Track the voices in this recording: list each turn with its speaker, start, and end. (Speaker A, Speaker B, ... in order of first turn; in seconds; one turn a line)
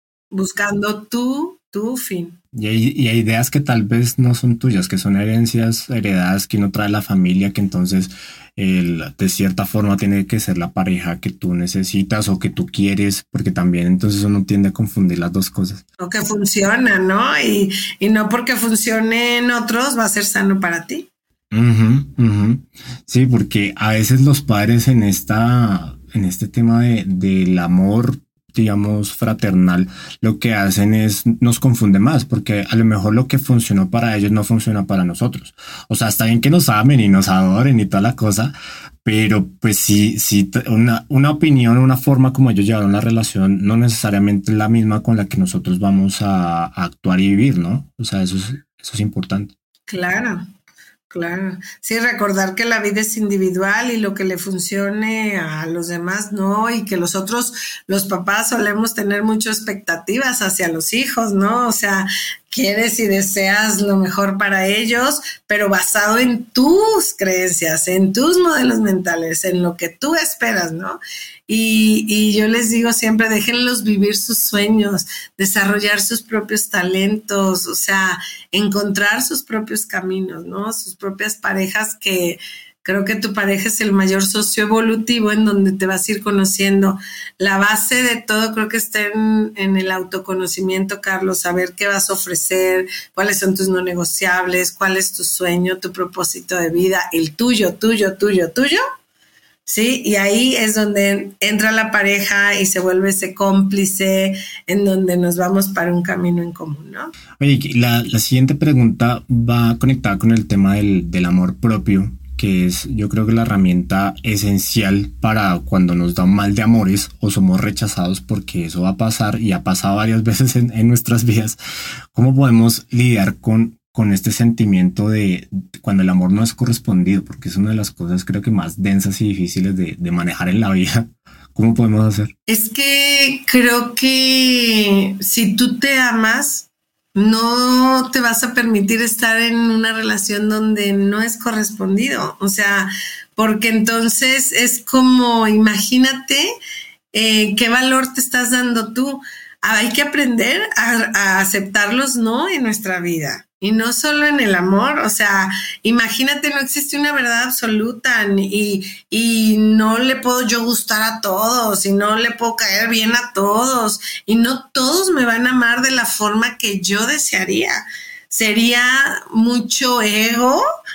Speaker A: 0.3-2.4
Speaker B: 2.5-15.8
Speaker A: 16.0-21.1
Speaker B: 21.5-49.5
Speaker A: 49.9-50.5
Speaker A: 51.1-98.8
Speaker A: 99.7-107.1
Speaker B: 107.4-121.6
Speaker B: 122.1-132.3
Speaker A: 132.5-146.5
Speaker A: 147.1-170.6